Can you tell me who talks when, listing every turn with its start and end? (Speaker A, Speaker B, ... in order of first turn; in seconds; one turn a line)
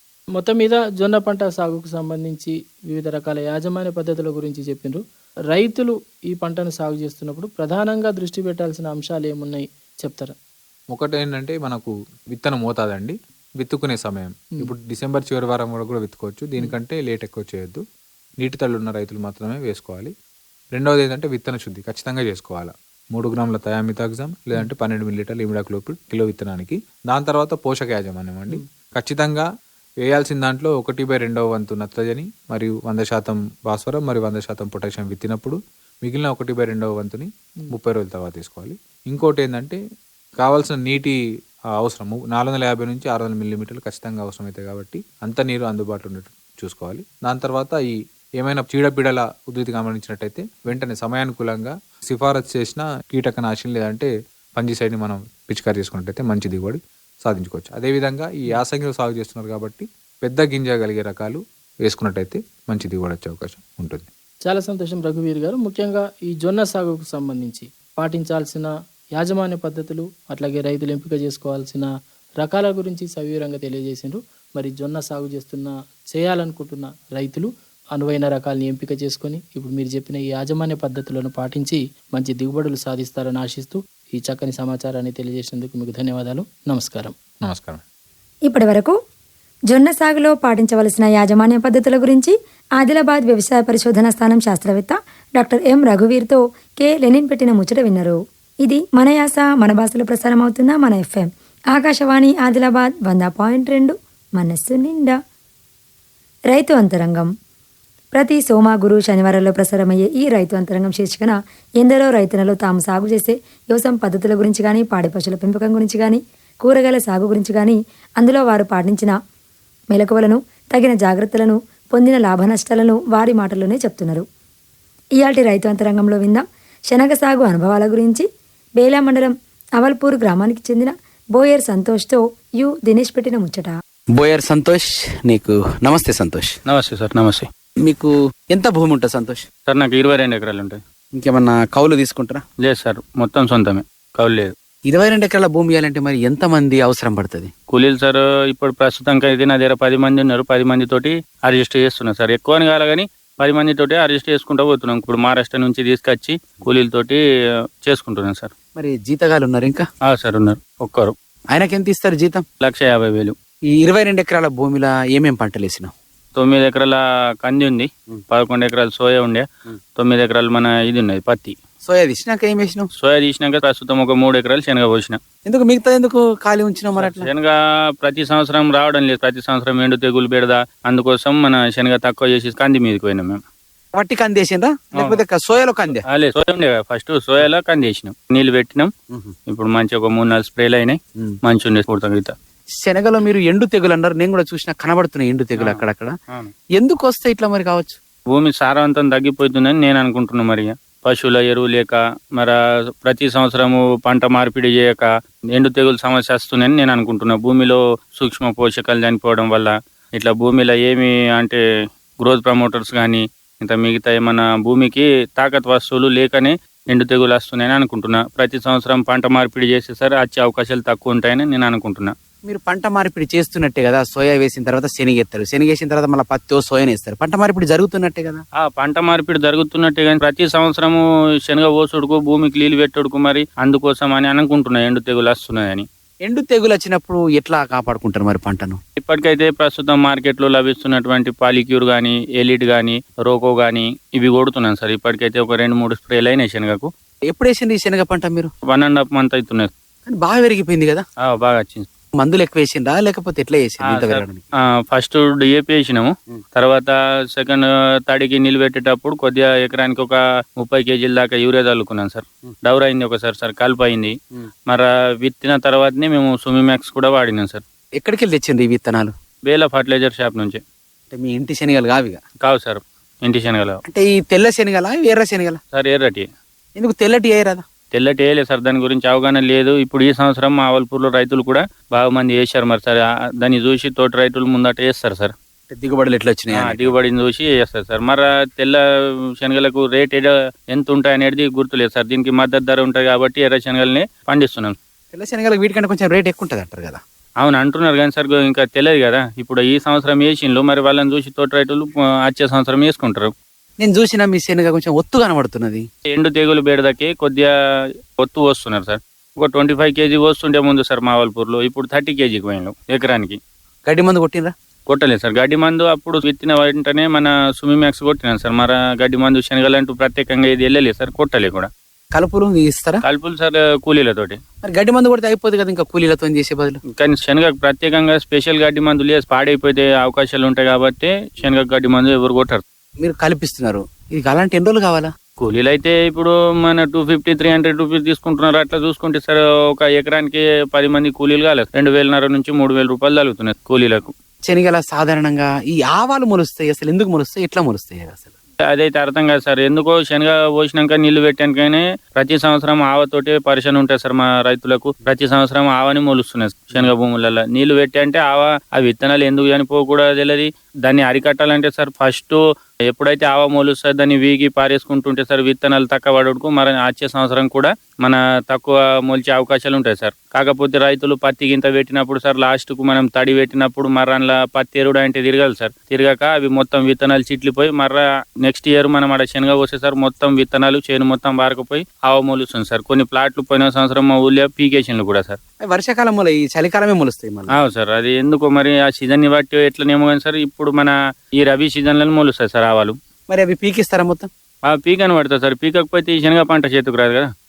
Speaker A: 0.4-5.0
Speaker A: 5.5-10.3
Speaker B: 10.9-17.8
Speaker B: 18.4-20.1
Speaker B: 20.8-29.5
Speaker B: 30.0-39.8
Speaker B: 40.4-41.2
Speaker B: 41.8-64.1
Speaker A: 64.5-71.9
Speaker A: 72.4-87.2
Speaker B: 87.4-87.8
Speaker C: 88.5-89.0
Speaker C: 89.7-105.2
Speaker C: 106.5-107.3
Speaker C: 108.2-119.1
Speaker C: 119.9-124.2
Speaker C: 125.2-128.3
Speaker C: 128.8-133.7
Speaker D: 134.2-136.5
Speaker E: 136.7-137.5
Speaker D: 137.8-139.5
Speaker E: 139.7-140.8
Speaker D: 141.2-142.4
Speaker E: 142.6-144.5
Speaker D: 144.9-147.5
Speaker E: 147.7-157.2
Speaker E: 157.8-158.5
Speaker D: 158.8-159.9
Speaker E: 160.1-161.1
Speaker D: 161.5-162.4
Speaker E: 162.6-163.3
Speaker D: 163.8-165.9
Speaker E: 166.4-169.5
Speaker E: 170.0-171.6
Speaker D: 171.8-172.9
Speaker E: 173.0-175.2
Speaker D: 175.5-177.3
Speaker E: 177.0-183.4
Speaker D: 183.9-186.0
Speaker E: 186.1-188.9
Speaker E: 189.5-192.3
Speaker D: 192.8-196.1
Speaker E: 195.6-196.5
Speaker D: 196.8-198.0
Speaker E: 198.3-211.6
Speaker E: 212.2-222.1
Speaker D: 222.5-228.4
Speaker E: 228.6-235.9
Speaker D: 236.3-238.8
Speaker E: 239.0-246.9
Speaker D: 247.3-248.5
Speaker E: 248.7-249.7
Speaker D: 250.1-251.1
Speaker E: 251.2-251.9
Speaker D: 252.2-254.4
Speaker E: 253.9-254.2
Speaker E: 254.8-264.1
Speaker E: 264.7-267.6
Speaker D: 268.0-269.1
Speaker E: 269.5-270.6
Speaker D: 271.1-272.2
Speaker E: 272.4-273.8
Speaker D: 273.9-275.6
Speaker E: 275.7-276.3
Speaker D: 276.8-277.6
Speaker E: 277.9-285.3
Speaker D: 285.7-286.9
Speaker E: 286.5-288.8
Speaker E: 289.4-294.8
Speaker D: 295.1-297.0
Speaker E: 297.4-303.3
Speaker D: 303.8-305.9
Speaker E: 306.1-307.5
Speaker E: 308.2-313.4
Speaker D: 313.9-314.5
Speaker E: 314.9-321.7
Speaker D: 322.1-323.0
Speaker E: 323.0-324.4
Speaker D: 324.6-326.8
Speaker E: 327.0-332.6
Speaker D: 333.0-335.1
Speaker E: 335.4-344.1
Speaker D: 344.5-348.3
Speaker E: 348.7-362.4
Speaker E: 362.9-385.4
Speaker D: 385.7-387.6
Speaker E: 387.6-393.0
Speaker D: 393.3-394.3
Speaker E: 394.7-397.3